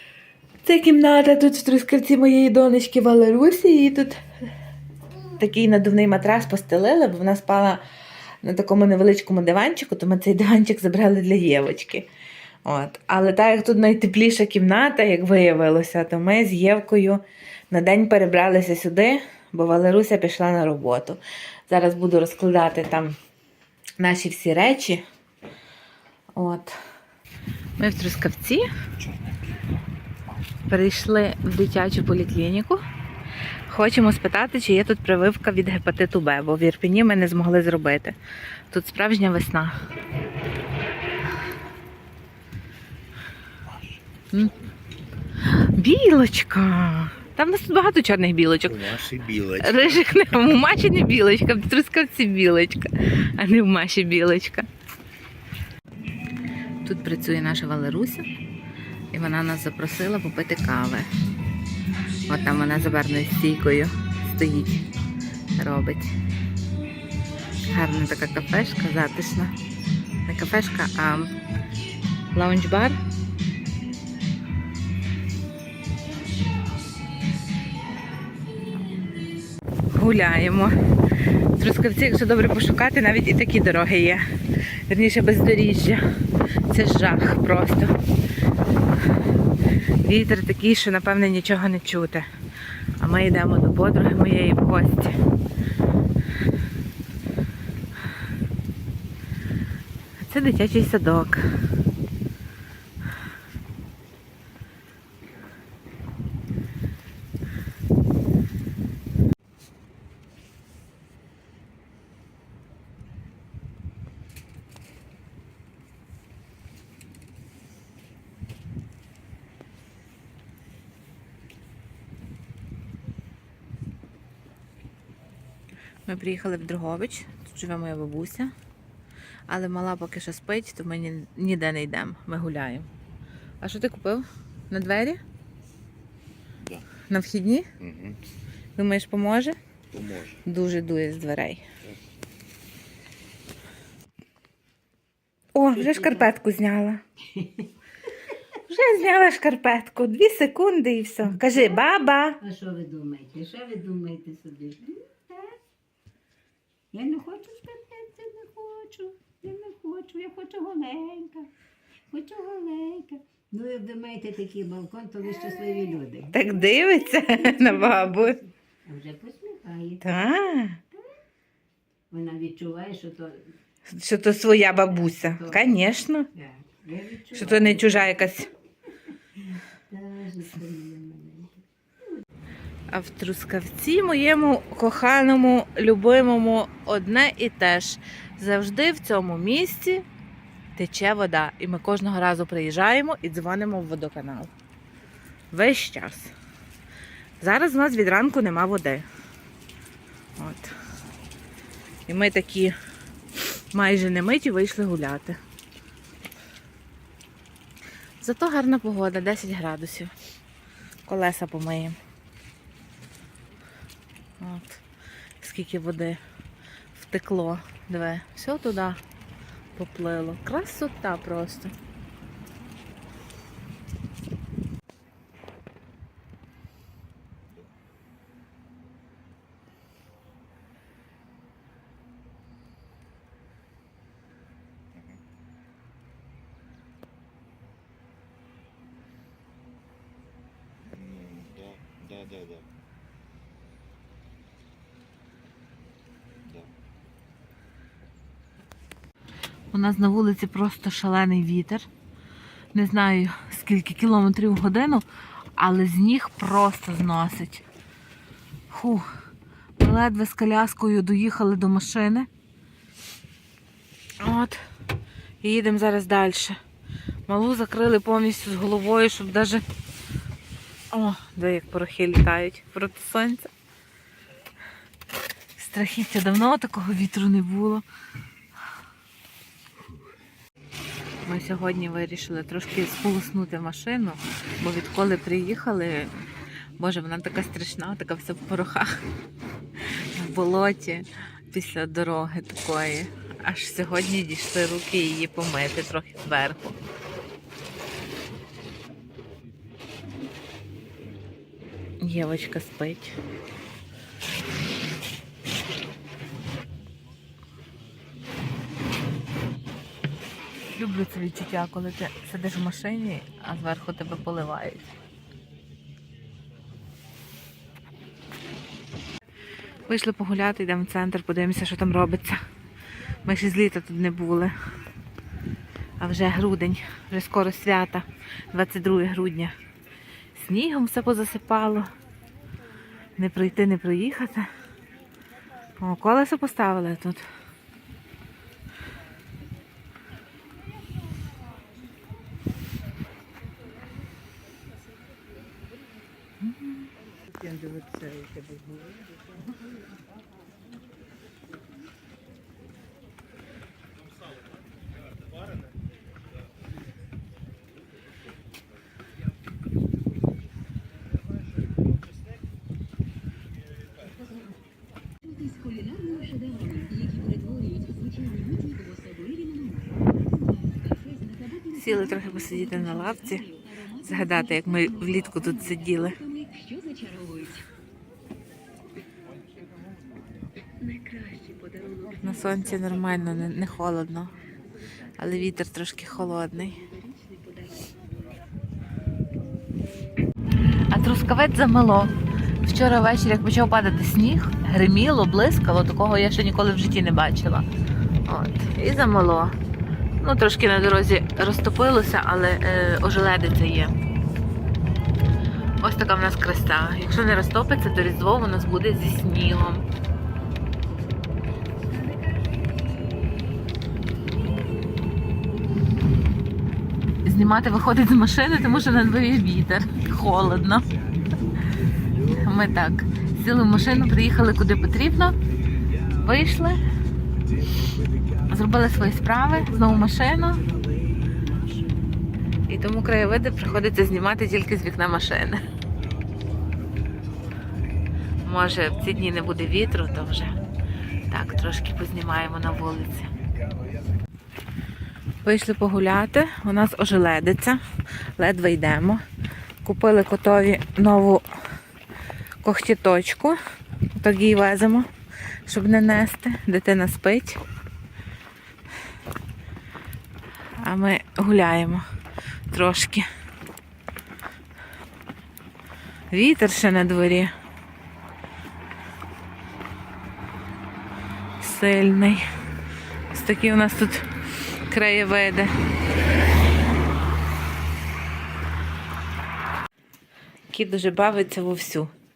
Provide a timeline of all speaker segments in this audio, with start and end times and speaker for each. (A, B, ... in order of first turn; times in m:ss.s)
0:00.6-0:04.2 A
0:05.4-0:07.8 A
0:08.4-0:12.1 A
0:12.6-0:23.2 A
0:24.0-0:25.0 A
0:26.4-0:26.8 A
0:27.8-0:28.7 A
0:29.0-0:29.6 B
0:30.7-0:32.8 A
0:33.7-0:38.2 A
0:38.7-0:39.7 A
0:43.7-0:44.0 B
0:44.3-0:44.6 A
0:45.4-0:48.9 A
0:48.6-0:50.0 B
0:49.6-0:54.7 A
0:56.8-0:58.2 A
0:59.1-1:01.1 A
1:02.3-1:04.8 A
1:05.6-1:06.1 A
1:07.7-1:09.5 A
1:10.2-1:11.3 A
1:12.3-1:13.0 A
1:19.9-1:20.7 A
1:21.5-1:24.2 A
1:24.9-1:26.0 A
1:26.7-1:27.9 A
1:30.0-1:32.3 A
1:33.0-1:35.2 A
1:40.2-1:41.4 A
2:06.1-2:08.5 A
2:09.5-2:12.9 A
2:13.6-2:15.2 A
2:17.1-2:17.7 A
2:17.8-2:18.2 B
2:18.8-2:19.6 A
2:19.9-2:20.4 B
2:20.4-2:21.6 A
2:25.5-2:27.0 A
2:25.7-2:26.3 C
2:27.3-2:27.7 C
2:28.6-2:32.4 A
2:31.4-2:31.8 C
2:32.4-2:35.6 C
2:36.9-2:41.5 C
2:42.1-2:50.1 C
2:46.3-2:48.4 A
2:50.0-2:50.8 A
2:52.1-2:53.5 C
2:53.9-2:56.3 A
2:54.8-2:55.8 C
2:56.3-2:58.3 C
2:57.3-2:58.5 A
2:59.1-3:01.6 C
3:02.9-3:10.0 A
3:10.8-3:14.5 A
3:15.5-3:16.3 A
3:17.4-3:19.1 A
3:20.4-3:20.7 A
3:22.1-3:22.7 A
3:23.7-3:25.4 A
3:28.2-3:30.1 A
3:31.0-3:32.0 A
3:34.4-3:34.8 A
3:35.4-3:36.2 A
3:36.9-3:39.0 A
3:39.8-3:41.7 A
3:54.9-3:55.2 B
4:00.9-4:02.6 B
4:06.4-4:06.7 B
4:09.7-4:11.9 A
4:12.7-4:15.0 A
4:15.6-4:17.6 A
4:18.7-4:19.1 A
4:19.8-4:22.3 A
4:24.2-4:24.6 A
4:25.4-4:26.6 A
4:27.3-4:29.6 A
4:30.9-4:33.5 A
4:35.6-4:37.8 A
4:41.2-4:46.1 A
4:46.8-4:49.0 A
4:50.1-4:56.8 A
5:02.0-5:03.2 A
5:10.7-5:14.9 A
5:19.9-5:22.4 A
5:23.2-5:24.5 A
5:26.0-5:29.5 A
5:30.4-5:31.9 A
5:33.2-5:34.5 A
5:35.8-5:37.2 A
5:46.4-5:46.9 A
5:47.3-5:49.2 C
6:11.7-6:16.2 A
6:20.9-6:22.0 C
6:22.2-6:24.3 A
6:25.2-6:26.8 A
6:30.9-6:32.1 A
6:32.6-6:37.6 A
6:38.2-6:39.5 A
6:40.2-6:43.9 A
6:45.8-6:49.8 A
6:57.2-7:00.9 A
7:02.1-7:05.3 A
7:06.0-7:06.8 A
7:08.4-7:10.7 A
7:11.2-7:11.5 B
7:12.7-7:15.6 A
7:18.4-7:20.6 A
7:21.2-7:23.3 A
7:25.4-7:27.8 A
7:28.4-7:29.2 A
7:29.8-7:31.4 A
7:32.6-7:33.6 A
7:34.1-7:35.1 A
7:35.6-7:37.6 A
7:40.8-7:42.0 A
7:42.7-7:43.3 A
7:46.3-7:47.5 A
7:51.6-7:52.4 A
7:53.3-7:54.3 A
7:54.8-7:55.7 A
8:00.7-8:02.1 A